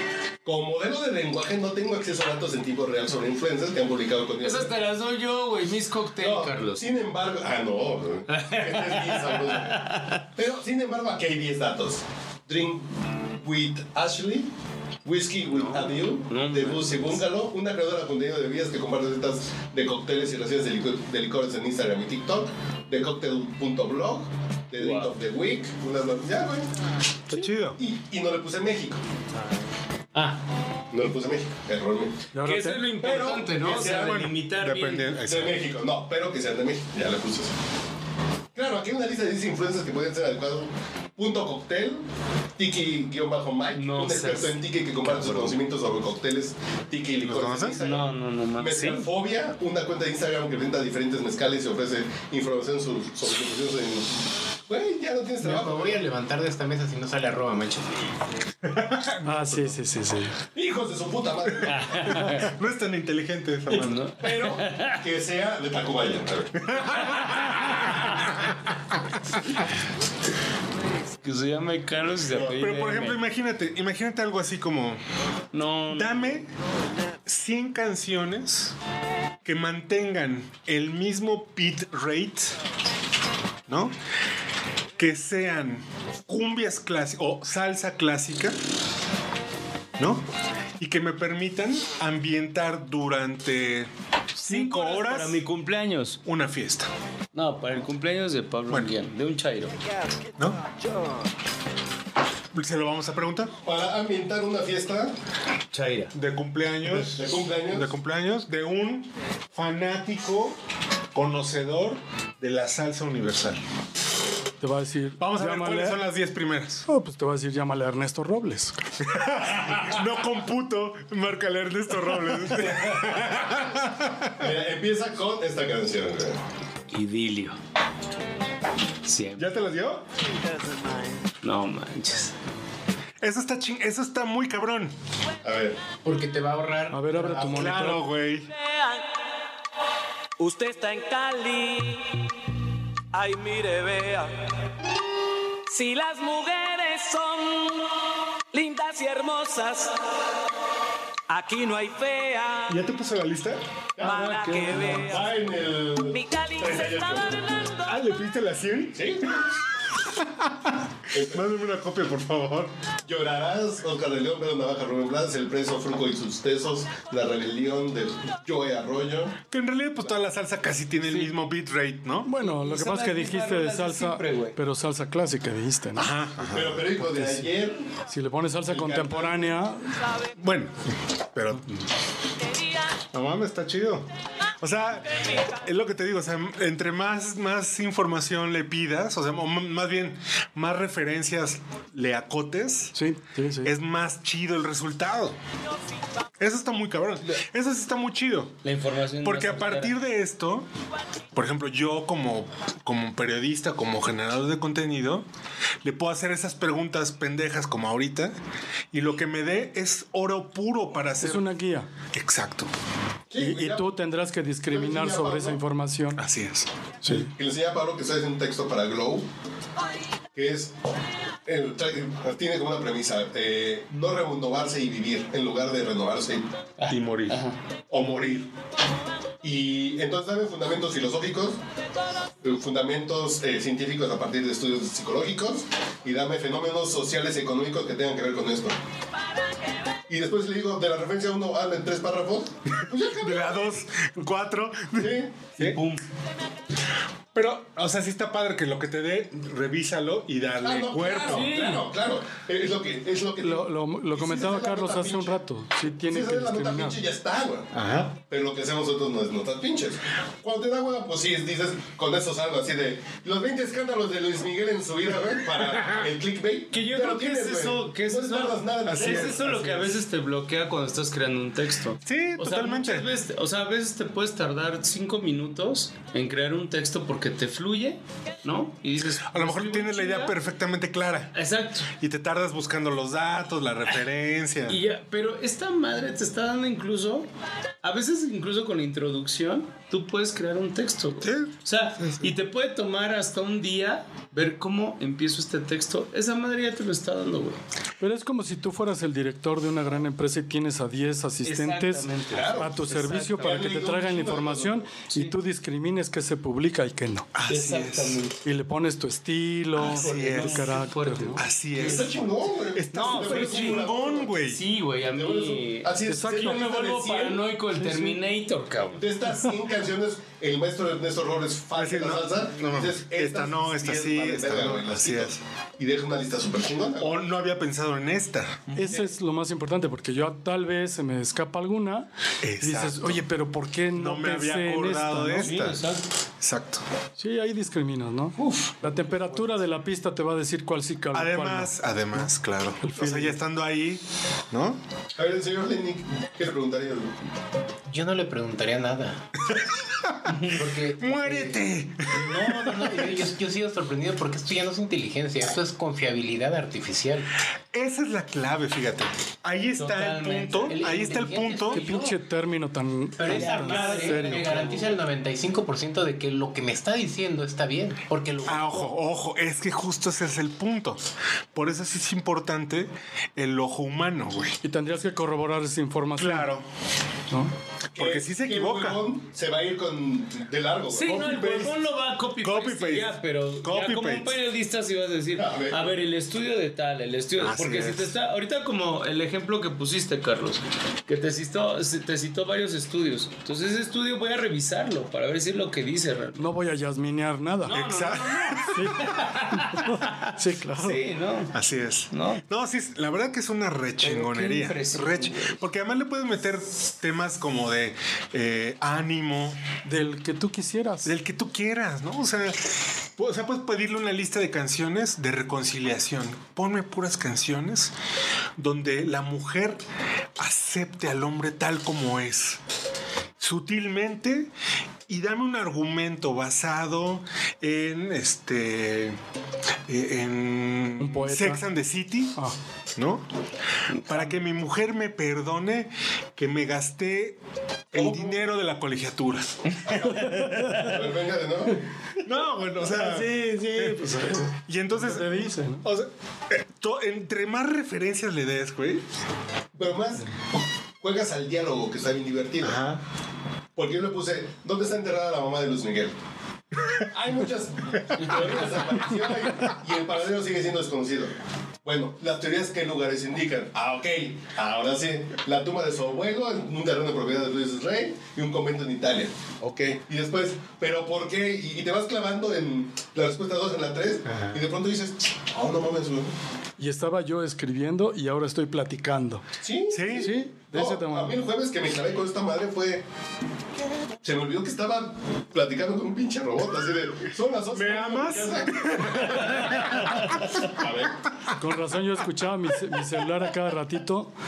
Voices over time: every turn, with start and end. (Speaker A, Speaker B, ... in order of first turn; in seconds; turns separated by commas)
Speaker A: 0.5-4.7, Speaker B: 4.4-7.0, Speaker A: 6.2-14.5, Speaker B: 8.3-10.2, Speaker A: 15.1-26.7, Speaker B: 15.5-17.2, Speaker B: 24.8-25.1, Speaker C: 27.3-27.8, Speaker A: 27.3-29.0, Speaker B: 30.1-30.4, Speaker A: 30.9-32.2, Speaker D: 32.3-32.8, Speaker B: 32.5-35.1, Speaker A: 33.0-34.3, Speaker C: 33.6-35.6, Speaker A: 35.2-37.5, Speaker A: 38.5-42.0, Speaker A: 42.6-48.1, Speaker B: 43.7-45.5, Speaker C: 47.1-47.8, Speaker B: 47.8-49.1, Speaker A: 48.6-54.2, Speaker A: 54.7-56.0, Speaker E: 55.4-57.9, Speaker C: 58.6-59.8, Speaker D: 59.2-60.4, Speaker A: 60.5-62.0, Speaker C: 61.6-64.1, Speaker B: 61.7-62.5, Speaker B: 63.7-65.0, Speaker A: 64.2-66.8, Speaker C: 66.6-68.6, Speaker B: 71.2-73.2, Speaker C: 72.3-75.0, Speaker B: 75.5-76.4, Speaker C: 75.9-76.5, Speaker C: 77.2-78.8, Speaker C: 79.5-82.6, Speaker C: 83.7-83.9, Speaker C: 85.0-88.6, Speaker C: 90.0-90.2, Speaker C: 90.8-95.4, Speaker B: 94.4-96.2, Speaker C: 96.2-96.9, Speaker B: 97.3-99.8, Speaker C: 102.5-103.5, Speaker A: 103.7-105.1, Speaker B: 105.7-106.1, Speaker C: 106.1-110.6, Speaker A: 106.9-107.9, Speaker C: 111.1-113.6, Speaker D: 114.6-116.0, Speaker C: 115.2-116.8, Speaker D: 116.9-118.8, Speaker C: 119.0-124.5, Speaker A: 124.4-126.4, Speaker B: 126.9-127.6, Speaker B: 129.0-129.5, Speaker C: 129.4-130.0, Speaker B: 131.4-132.3, Speaker C: 133.2-134.9, Speaker A: 135.4-135.8, Speaker E: 136.0-137.6, Speaker D: 136.9-138.0, Speaker C: 137.5-138.5, Speaker F: 138.6-139.1, Speaker F: 140.4-142.2, Speaker F: 143.1-144.3, Speaker F: 145.7-148.0, Speaker F: 148.5-150.0, Speaker F: 151.3-152.8, Speaker C: 152.7-153.6, Speaker A: 154.0-154.3, Speaker F: 154.0-155.4, Speaker C: 154.4-155.0, Speaker A: 154.9-157.3, Speaker F: 156.1-158.0, Speaker C: 157.9-159.5, Speaker A: 158.9-159.5, Speaker C: 160.0-162.7, Speaker A: 161.1-161.4, Speaker A: 163.0-169.4, Speaker C: 169.5-172.3, Speaker B: 171.1-171.3, Speaker D: 172.2-176.1, Speaker B: 172.4-174.6, Speaker C: 176.0-177.0, Speaker A: 176.5-177.8, Speaker D: 177.0-177.5, Speaker D: 178.1-179.8, Speaker A: 178.7-179.6, Speaker C: 180.4-181.7, Speaker C: 183.1-184.1, Speaker C: 184.6-192.9, Speaker D: 192.9-193.7, Speaker C: 193.6-195.4, Speaker C: 196.4-198.6, Speaker B: 198.6-199.9, Speaker C: 199.2-200.7, Speaker C: 201.3-205.3, Speaker C: 205.8-208.4, Speaker C: 208.9-211.5, Speaker D: 211.2-211.9, Speaker C: 212.1-212.7, Speaker A: 213.3-213.9, Speaker D: 213.4-216.2, Speaker A: 214.7-215.6, Speaker C: 216.2-216.7, Speaker D: 217.0-217.3, Speaker A: 217.1-219.3, Speaker A: 220.3-220.7, Speaker A: 221.5-226.5, Speaker B: 226.8-227.6, Speaker C: 226.9-228.5, Speaker A: 227.9-228.4, Speaker A: 229.4-231.6, Speaker A: 232.4-238.8, Speaker A: 240.1-243.7, Speaker C: 243.1-245.8, Speaker A: 245.0-245.4, Speaker B: 245.6-246.0, Speaker C: 247.3-251.5, Speaker A: 250.6-255.4, Speaker B: 251.1-251.9, Speaker D: 253.4-257.0, Speaker A: 256.1-257.7, Speaker C: 257.7-258.1, Speaker A: 258.2-269.6, Speaker B: 266.7-280.4, Speaker C: 268.9-269.7, Speaker C: 272.0-273.1, Speaker C: 279.3-281.4, Speaker B: 281.4-281.9, Speaker C: 281.9-284.8, Speaker B: 284.7-287.3, Speaker B: 287.8-297.6, Speaker C: 291.2-292.3, Speaker D: 298.0-307.3, Speaker B: 301.4-302.7, Speaker A: 302.3-304.9, Speaker C: 307.3-308.2, Speaker B: 307.5-308.4, Speaker D: 308.4-311.4, Speaker B: 309.8-312.1, Speaker C: 309.8-310.8, Speaker C: 311.4-312.2, Speaker A: 311.8-314.3, Speaker C: 312.7-314.6, Speaker B: 312.9-319.1, Speaker A: 315.1-317.4, Speaker D: 316.1-316.6, Speaker A: 318.9-327.2, Speaker C: 321.7-325.4, Speaker C: 327.0-328.9, Speaker D: 328.8-332.1, Speaker C: 332.4-333.2, Speaker D: 332.6-335.5, Speaker C: 333.9-335.8, Speaker B: 335.4-336.0, Speaker C: 336.4-336.8, Speaker D: 337.2-341.7, Speaker B: 338.4-338.7, Speaker C: 341.1-344.8, Speaker D: 342.8-343.4, Speaker A: 345.2-347.1, Speaker E: 347.9-349.2, Speaker C: 349.5-350.4, Speaker E: 350.5-351.6, Speaker C: 351.0-352.9, Speaker B: 352.1-353.3, Speaker E: 352.2-357.3, Speaker C: 357.7-361.8, Speaker B: 359.8-360.9, Speaker E: 360.7-362.2, Speaker D: 361.7-364.5, Speaker E: 363.2-368.9, Speaker B: 363.2-365.0, Speaker C: 368.4-374.6, Speaker D: 374.6-376.5, Speaker C: 376.2-376.7, Speaker C: 377.9-379.1, Speaker A: 378.0-381.5, Speaker B: 380.9-396.4, Speaker C: 381.1-381.8, Speaker C: 382.4-384.4, Speaker A: 385.4-385.9, Speaker C: 387.4-388.2, Speaker D: 396.4-397.8, Speaker B: 397.6-401.6, Speaker C: 397.7-399.1, Speaker D: 398.7-401.0, Speaker C: 401.5-409.6, Speaker B: 402.1-402.4, Speaker B: 404.0-405.6, Speaker D: 409.9-411.1, Speaker C: 411.1-417.9, Speaker C: 418.6-419.8, Speaker C: 420.4-422.6, Speaker C: 423.4-424.5, Speaker C: 425.1-429.2, Speaker C: 429.9-432.4, Speaker D: 431.0-431.6, Speaker C: 433.0-433.2, Speaker C: 433.9-437.4, Speaker B: 434.0-434.3, Speaker C: 437.9-439.7, Speaker A: 437.9-438.4, Speaker B: 439.7-440.9, Speaker D: 440.0-440.8, Speaker A: 440.8-441.8, Speaker C: 442.2-449.0, Speaker D: 442.8-445.9, Speaker A: 449.8-450.3, Speaker A: 451.0-452.8, Speaker C: 452.6-453.0, Speaker A: 453.8-456.1, Speaker A: 457.0-476.3, Speaker C: 458.1-458.4, Speaker C: 474.2-474.6, Speaker D: 476.8-479.4, Speaker A: 479.6-483.0, Speaker C: 479.9-480.3, Speaker D: 480.2-481.4, Speaker A: 484.2-491.2, Speaker C: 487.7-489.9, Speaker D: 491.6-494.3